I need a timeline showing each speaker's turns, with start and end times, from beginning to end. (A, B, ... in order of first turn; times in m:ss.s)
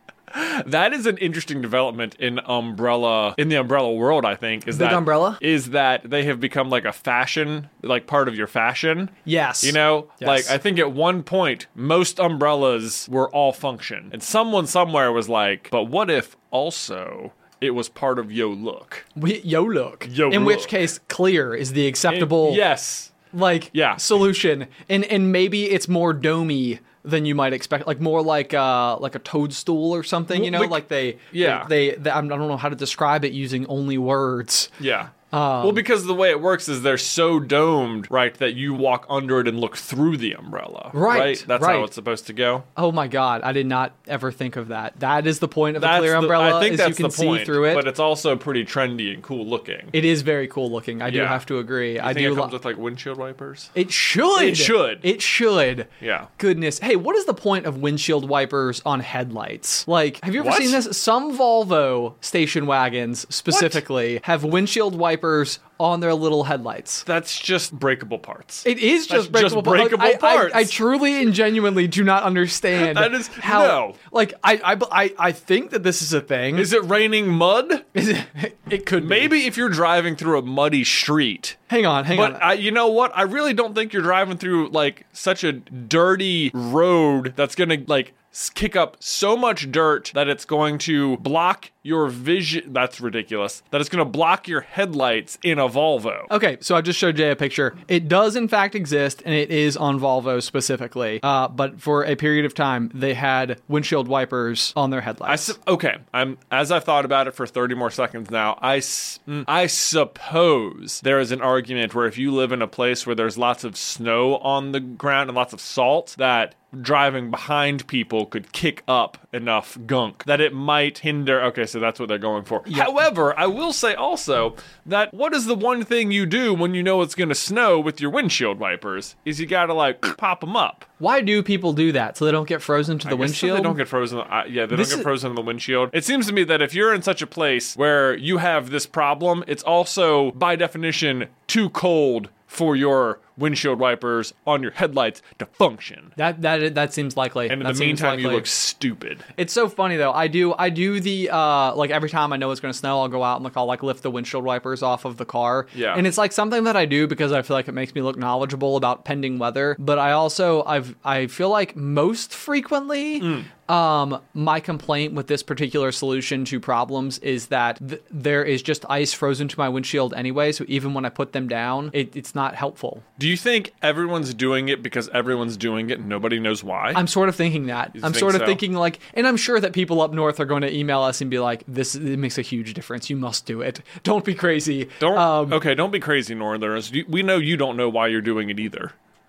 0:00.3-0:19.1 A
0:04.7-0:05.4 B
0:09.2-0:10.6 B
0:19.2-0:22.6 B
0:20.0-0:20.8 A
0:22.1-0:23.2 A
0:23.3-0:34.8 B
0:23.7-0:24.0 A
0:30.3-0:30.8 A
0:31.3-0:31.7 A
0:34.8-0:42.7 A
0:35.3-0:35.8 B
0:40.9-0:41.9 B
0:42.8-0:47.9 B
0:45.8-0:50.0 A
0:49.9-0:52.5 B
0:51.1-0:51.4 A
0:52.0-0:53.7 A
0:53.8-1:07.1 B
0:54.4-0:55.0 A
0:56.0-0:56.3 A
1:00.4-1:00.8 A
1:03.5-1:03.8 A
1:07.1-1:10.8 A
1:08.6-1:16.7 B
1:12.8-1:14.0 A
1:16.6-1:17.8 A
1:17.9-1:19.4 B
1:19.0-1:21.6 A
1:21.7-1:22.4 B
1:22.1-1:36.3 A
1:36.3-1:45.6 B
1:45.3-2:10.9 A
2:11.0-2:13.8 B
2:13.0-2:26.1 A
2:14.7-2:15.1 B
2:26.2-2:28.5 B
2:27.5-2:29.2 A
2:29.4-2:53.0 B
2:35.7-2:36.0 A
2:43.2-2:43.5 A
2:53.2-2:57.0 A
2:56.9-3:05.6 B
2:58.0-2:58.6 A
3:05.0-3:08.9 A